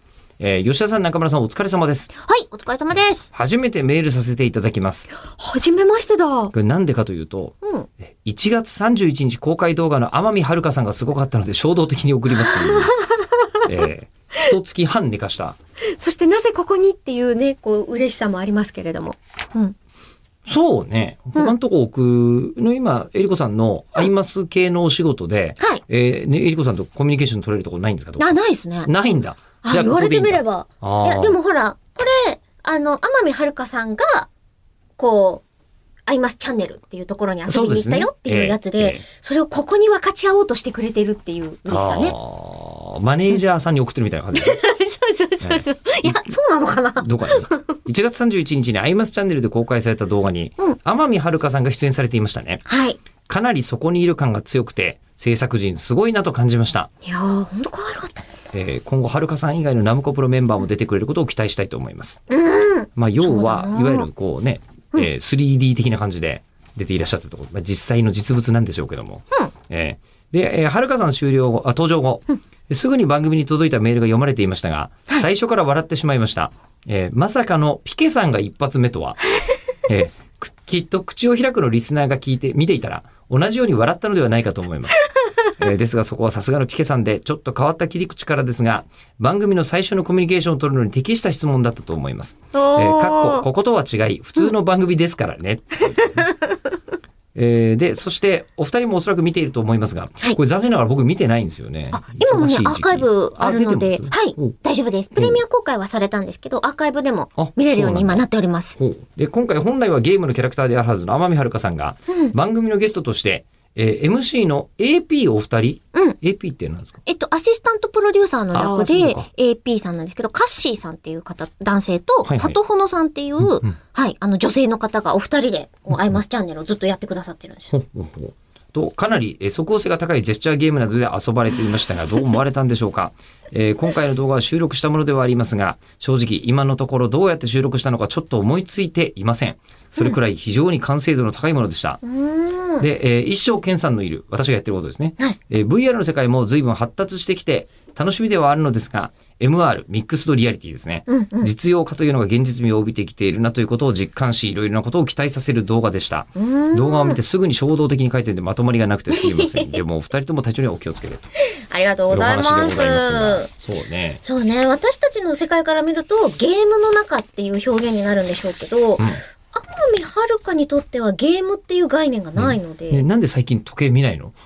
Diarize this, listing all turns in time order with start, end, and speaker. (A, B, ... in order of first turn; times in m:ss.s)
0:00.4-0:02.1 A
0:02.2-0:03.3 B
0:03.3-0:05.1 A
0:05.2-0:06.5 B
0:06.5-0:13.1 A
0:07.6-0:07.9 B
0:12.4-0:13.7 B
0:13.6-0:15.6 A
0:15.9-0:19.8 B
0:20.5-0:31.4 A
0:28.2-0:28.9 B
0:29.6-0:34.3 B
0:35.0-0:35.4 B
0:36.1-0:42.2 B
0:37.5-0:39.0 A
0:41.7-0:44.6 A
0:44.3-0:47.7 B
0:45.4-0:46.2 A
0:47.0-0:52.6 A
0:52.7-0:53.0 B
0:53.3-0:56.9 A
0:57.0-0:58.3 B
0:58.5-1:02.2 A
1:02.3-1:04.1 B
1:03.0-1:19.2 A
1:19.9-1:36.3 A
1:32.5-1:33.4 B
1:35.9-1:36.6 B
1:37.4-1:44.6 A
1:41.9-1:48.8 B
1:47.4-1:48.2 A
1:48.8-1:57.0 A
1:52.1-1:52.3 B
1:57.1-2:07.7 B
1:58.5-1:59.3 A
2:02.2-2:02.6 A
2:03.4-2:03.8 A
2:07.7-2:22.0 A
2:22.0-2:22.9 B
2:22.8-2:41.3 A
2:31.1-2:31.5 B
2:36.4-2:37.2 B
2:39.1-2:39.8 B
2:41.5-2:43.5 B
2:42.1-2:44.2 A
2:44.2-2:53.0 B
2:52.4-2:54.4 A